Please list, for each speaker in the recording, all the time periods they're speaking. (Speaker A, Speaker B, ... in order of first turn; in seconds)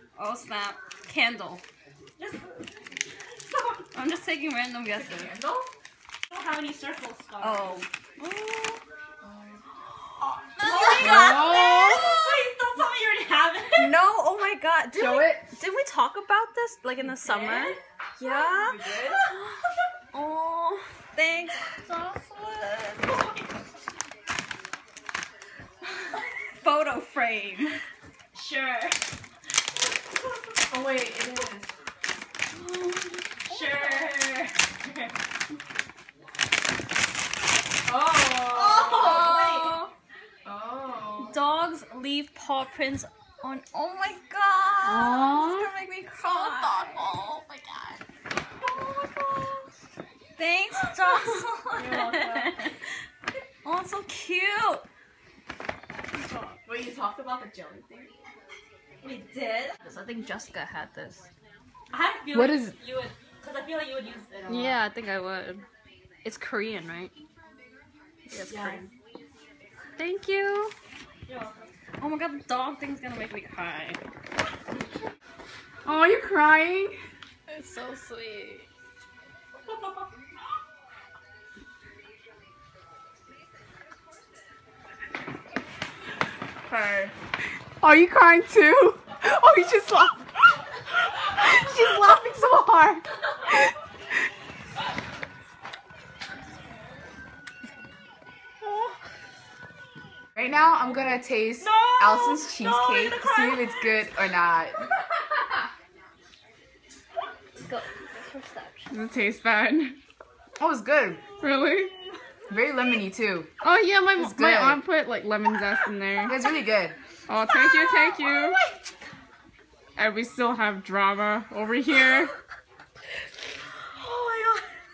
Speaker A: 0.1-1.6, 3.9-5.3, 7.4-8.8, 10.6-11.9, 13.8-19.4, 20.1-23.1, 26.6-27.8, 32.5-32.9, 33.7-34.1, 38.6-39.9, 41.2-48.0, 50.4-52.7, 53.6-54.9, 59.8-61.3, 64.5-65.7, 66.2-67.1, 68.3-68.9, 70.0-70.7, 72.0-74.0, 77.5-78.7, 107.6-109.2, 114.0-114.6, 117.3-118.6
Speaker B: 2.2-2.6, 3.5-3.8, 6.3-7.8, 10.6-13.9, 17.1-17.8, 23.0-23.4, 28.3-29.0, 33.4-35.1, 38.4-39.8, 51.8-52.5, 59.0-59.7, 61.9-64.8, 68.5-68.8, 71.3-71.6, 118.2-118.8, 124.0-124.7
Speaker C: 4.9-5.7, 9.2-9.6, 11.0-11.6, 18.3-19.2, 30.7-31.7, 37.8-39.3, 40.4-41.4, 46.2-47.0, 51.8-52.5, 56.2-58.1, 86.7-87.1, 101.6-103.4, 108.9-109.6, 111.4-111.9, 114.8-116.3, 117.4-118.5, 120.0-122.3
Speaker D: 11.0-12.0, 14.9-15.4, 44.8-45.7, 62.3-62.7, 75.8-77.0, 87.8-90.3, 91.2-93.7, 100.3-104.9, 110.6-111.2, 112.5-113.5, 114.2-114.8, 116.2-117.0